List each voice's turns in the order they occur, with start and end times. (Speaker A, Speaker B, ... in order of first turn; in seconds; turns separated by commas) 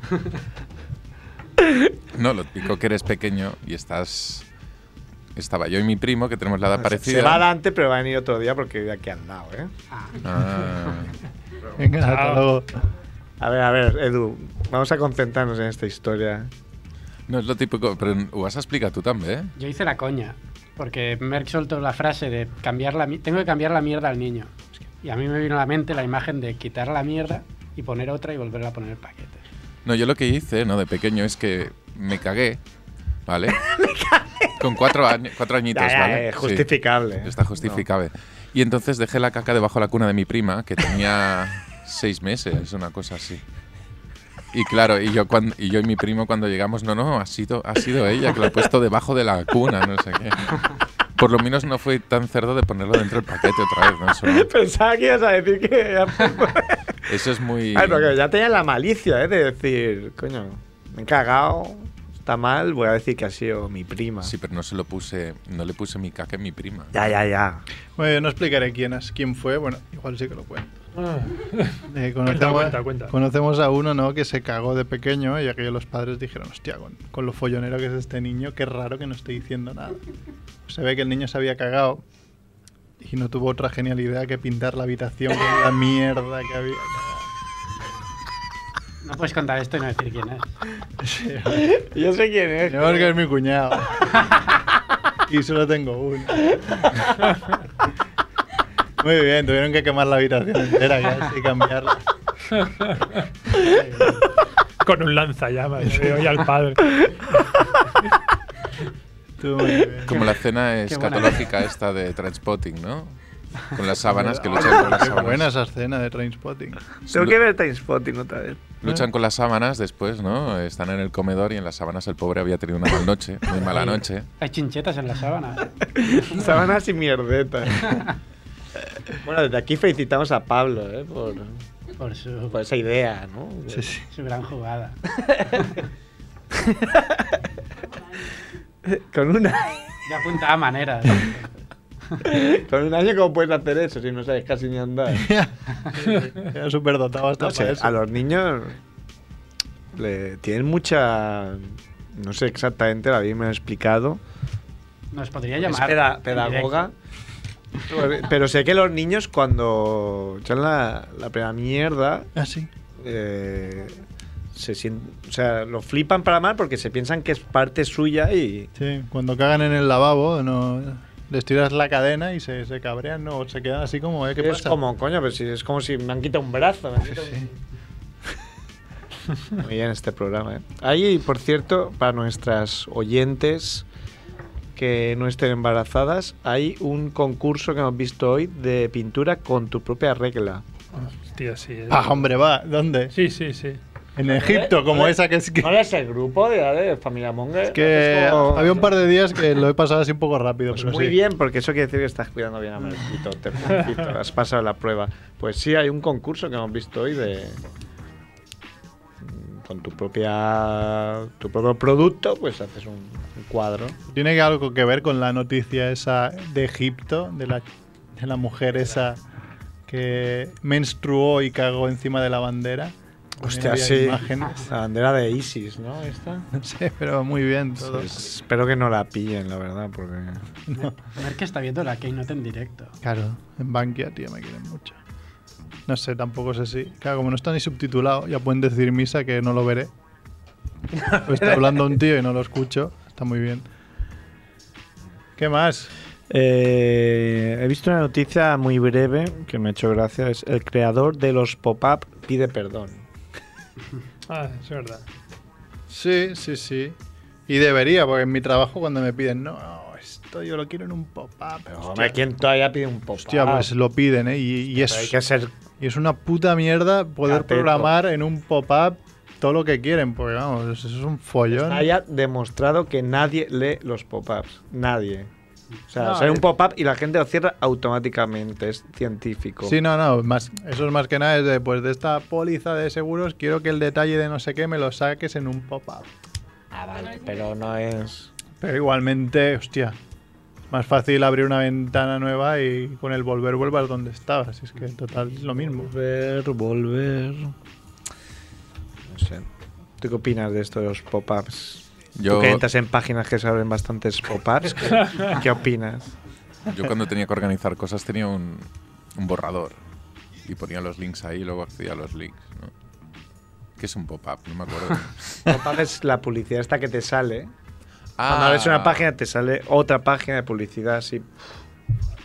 Speaker A: 2.1-4.5, Speaker A: 5.3-7.5, Speaker B: 6.8-9.7, Speaker C: 9.9-10.2, Speaker A: 10.2-11.1, Speaker D: 11.8-12.8, Speaker E: 12.0-12.4, Speaker B: 13.4-16.5, Speaker A: 17.3-19.5, Speaker C: 19.6-29.4, Speaker A: 29.8-32.6, Speaker A: 33.3-33.6, Speaker B: 33.6-34.5, Speaker A: 34.6-36.7, Speaker B: 35.7-37.8, Speaker A: 37.2-43.4, Speaker A: 44.5-54.5, Speaker B: 54.2-57.0, Speaker A: 57.1-58.1, Speaker B: 57.7-64.3, Speaker A: 64.2-66.9, Speaker B: 66.9-67.6, Speaker D: 68.0-70.8, Speaker E: 71.0-73.1, Speaker D: 71.8-80.0, Speaker D: 80.7-82.0, Speaker D: 83.0-87.2, Speaker C: 89.0-90.5, Speaker D: 91.0-91.7, Speaker B: 91.5-93.1, Speaker D: 92.6-94.1, Speaker D: 95.3-96.5, Speaker D: 99.0-102.0, Speaker D: 103.6-104.0, Speaker E: 104.8-107.2, Speaker D: 105.8-106.2, Speaker D: 109.4-110.2, Speaker A: 110.1-113.2, Speaker C: 110.9-111.4, Speaker A: 113.7-115.5, Speaker D: 114.0-116.8, Speaker B: 117.1-118.7, Speaker A: 118.8-124.3, Speaker C: 123.7-125.7, Speaker B: 125.9-128.1, Speaker B: 129.2-131.6, Speaker C: 132.0-132.6, Speaker B: 132.5-133.9, Speaker D: 133.7-134.0, Speaker C: 134.1-135.0, Speaker B: 135.1-135.7, Speaker B: 136.5-137.3, Speaker B: 138.8-139.8, Speaker C: 140.1-142.2, Speaker B: 142.2-145.3, Speaker D: 145.1-148.0, Speaker B: 147.4-148.8, Speaker B: 149.9-154.2, Speaker C: 155.1-156.8, Speaker B: 155.6-156.9, Speaker B: 157.8-162.3, Speaker D: 162.3-162.7, Speaker B: 163.0-168.7, Speaker D: 168.8-174.8, Speaker B: 174.4-177.6, Speaker D: 177.1-177.5, Speaker B: 179.5-183.8, Speaker B: 184.8-190.6, Speaker E: 190.9-192.2, Speaker D: 191.9-193.1, Speaker E: 193.1-193.8, Speaker D: 194.2-195.8, Speaker B: 194.2-198.9, Speaker D: 197.7-201.2, Speaker B: 200.7-207.6, Speaker B: 209.2-214.0, Speaker D: 214.1-219.2, Speaker D: 219.9-224.7, Speaker B: 223.4-226.5, Speaker D: 226.5-228.2, Speaker B: 227.8-230.4, Speaker D: 230.7-230.9, Speaker C: 230.7-232.9, Speaker D: 233.0-235.0, Speaker D: 235.9-239.9, Speaker D: 241.1-243.7, Speaker D: 245.4-245.9, Speaker B: 246.3-253.0, Speaker E: 254.3-255.0, Speaker D: 255.9-256.9, Speaker D: 257.5-262.2, Speaker B: 261.7-263.7, Speaker D: 263.2-265.2, Speaker B: 264.8-265.5, Speaker D: 265.8-271.9, Speaker B: 267.2-267.9, Speaker B: 271.5-275.3, Speaker B: 275.9-279.8, Speaker E: 276.0-276.4, Speaker D: 279.6-286.1, Speaker B: 286.7-288.3, Speaker D: 288.6-290.0, Speaker D: 290.7-295.9, Speaker B: 295.7-297.5, Speaker B: 299.1-299.5, Speaker B: 300.0-306.1, Speaker A: 302.2-302.6, Speaker A: 306.7-309.8, Speaker A: 310.4-312.7, Speaker A: 313.8-315.6, Speaker B: 315.5-317.5, Speaker A: 318.2-319.1, Speaker B: 318.2-321.3